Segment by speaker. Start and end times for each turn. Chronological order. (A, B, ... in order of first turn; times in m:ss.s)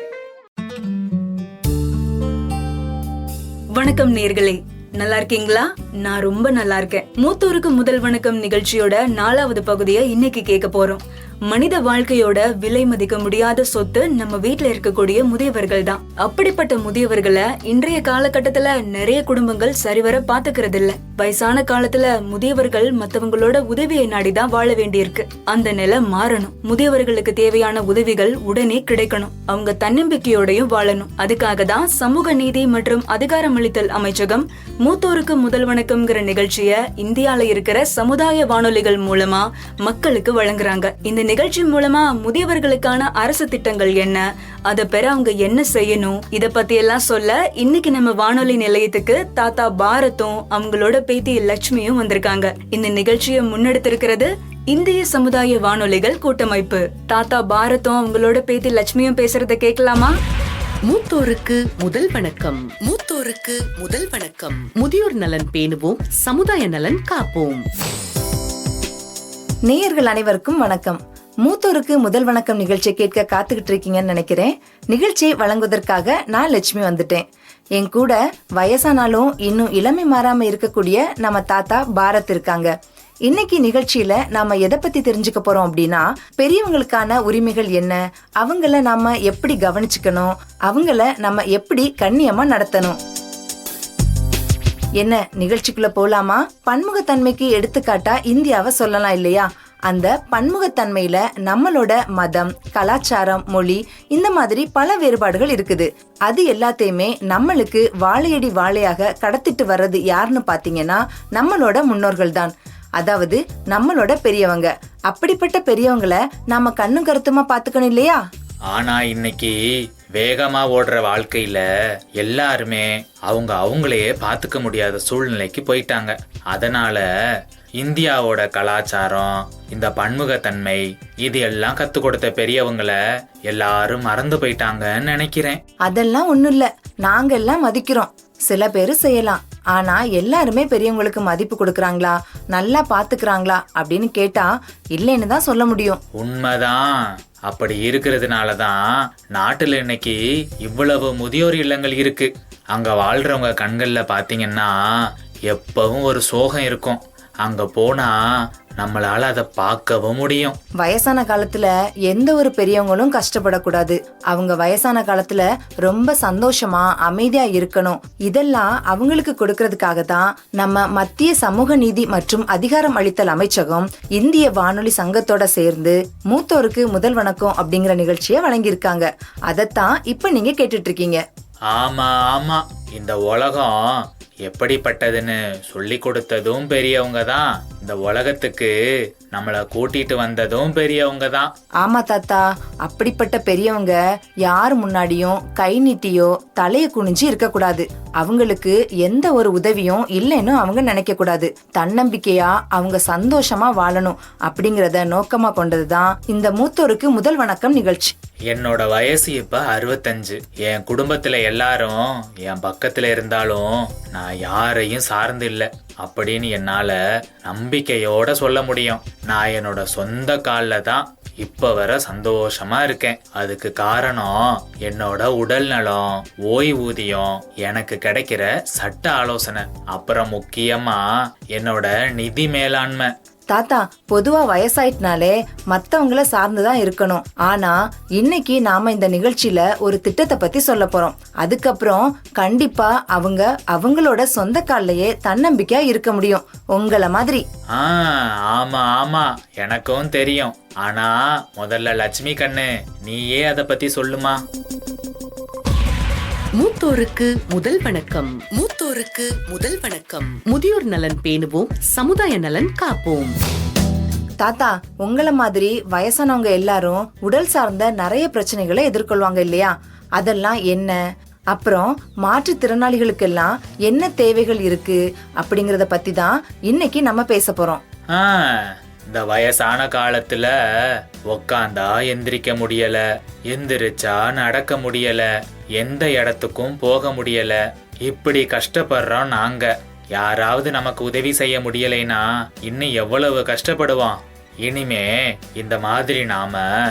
0:03.8-1:00.1 A
1:00.9-1:07.6 B
1:09.7-1:17.2 C
1:17.8-1:22.7 C
1:23.3-1:33.0 C
1:35.0-1:58.2 C
1:58.7-1:59.5 D
2:00.2-2:01.6 D
2:02.2-2:07.0 D
2:07.8-2:13.0 D
2:13.5-2:15.6 D
2:15.9-2:26.0 C
2:26.2-2:26.9 D
2:27.5-2:28.8 D
2:29.4-2:34.8 D
2:35.5-2:38.2 D
2:38.8-2:40.6 D
2:40.8-3:01.2 C
3:01.7-3:08.7 D
3:09.3-3:11.5 D
3:11.8-3:28.1 C
3:28.5-3:53.1 D
3:53.5-4:07.4 C
4:07.7-4:14.4 D
4:16.6-4:23.3 B
4:24.4-4:31.0 C
4:31.5-4:37.8 C
4:38.1-4:40.5 D
4:41.3-4:45.3 D
4:45.8-4:56.6 D